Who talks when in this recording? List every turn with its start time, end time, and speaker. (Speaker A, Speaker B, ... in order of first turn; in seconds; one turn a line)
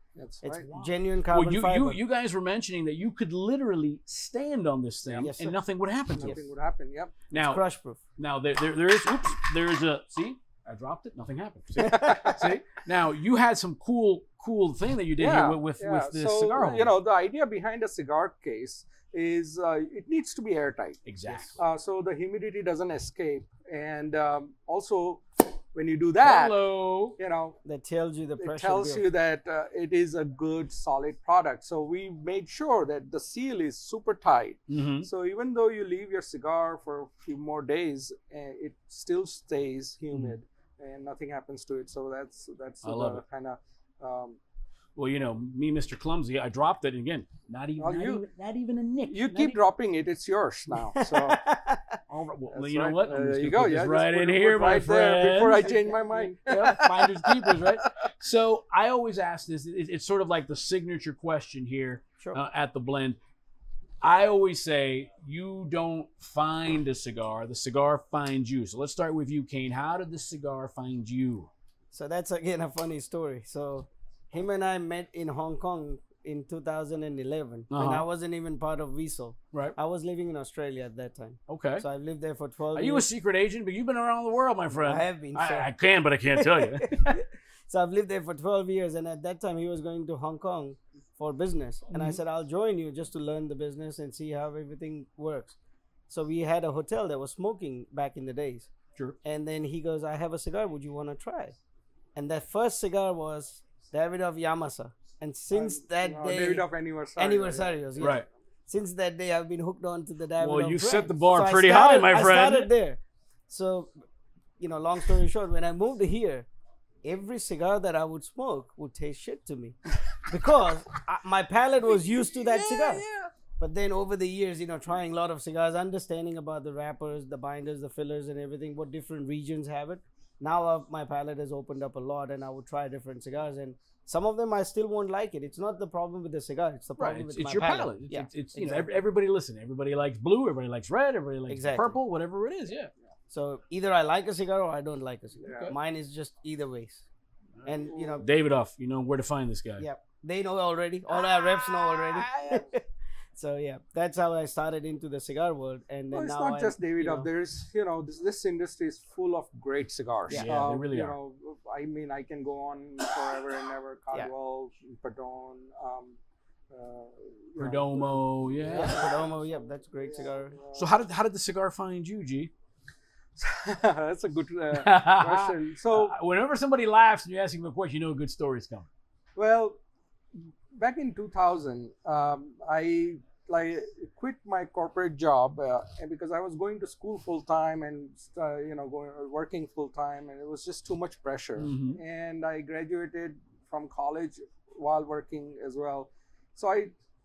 Speaker A: 0.1-0.7
Speaker B: 0.4-2.0
Speaker C: 0.7-6.4
Speaker B: 5.1-5.5
Speaker A: 6.2-7.2
Speaker B: 7.3-8.0
Speaker C: 7.3-7.6
Speaker C: 8.2-16.9
Speaker B: 11.8-12.4
Speaker A: 11.9-12.6
Speaker A: 15.2-27.6
Speaker C: 21.1-21.6
Speaker C: 26.2-27.2
Speaker B: 27.6-29.1
Speaker A: 28.4-44.4
Speaker C: 34.7-35.1
Speaker C: 42.8-43.2
Speaker C: 45.0-49.6
Speaker A: 47.8-48.2
Speaker A: 49.1-51.4
Speaker B: 50.9-52.0
Speaker C: 52.1-55.8
Speaker A: 52.5-58.1
Speaker B: 55.5-56.8
Speaker C: 56.5-63.2
Speaker C: 64.0-71.5
Speaker B: 71.9-83.1
Speaker C: 77.7-78.0
Speaker C: 81.5-81.8
Speaker C: 82.7-87.2
Speaker B: 84.8-85.7
Speaker B: 86.3-95.6
Speaker C: 91.9-92.2
Speaker B: 96.1-101.5
Speaker B: 102.2-106.7
Speaker A: 105.5-108.2
Speaker B: 107.2-114.0
Speaker C: 108.0-108.2
Speaker C: 110.4-112.7
Speaker B: 114.6-116.5
Speaker B: 117.0-123.0
Speaker A: 122.4-123.3
Speaker B: 123.6-138.9
Speaker C: 137.0-142.9
Speaker B: 141.5-142.0
Speaker B: 143.3-147.1
Speaker A: 145.4-145.7
Speaker C: 145.5-145.7
Speaker C: 147.6-149.8
Speaker B: 147.6-148.3
Speaker A: 147.9-148.2
Speaker B: 149.8-152.8
Speaker C: 151.1-152.6
Speaker B: 153.3-157.3
Speaker A: 156.1-166.2
Speaker B: 160.3-160.6
Speaker C: 160.3-161.2
Speaker A: 166.7-170.9
Speaker C: 167.6-169.1
Speaker B: 168.7-170.5
Speaker C: 170.7-172.5
Speaker A: 173.4-176.1
Speaker C: 174.7-178.9
Speaker A: 179.3-179.8
Speaker A: 180.7-196.9
Speaker C: 191.6-192.0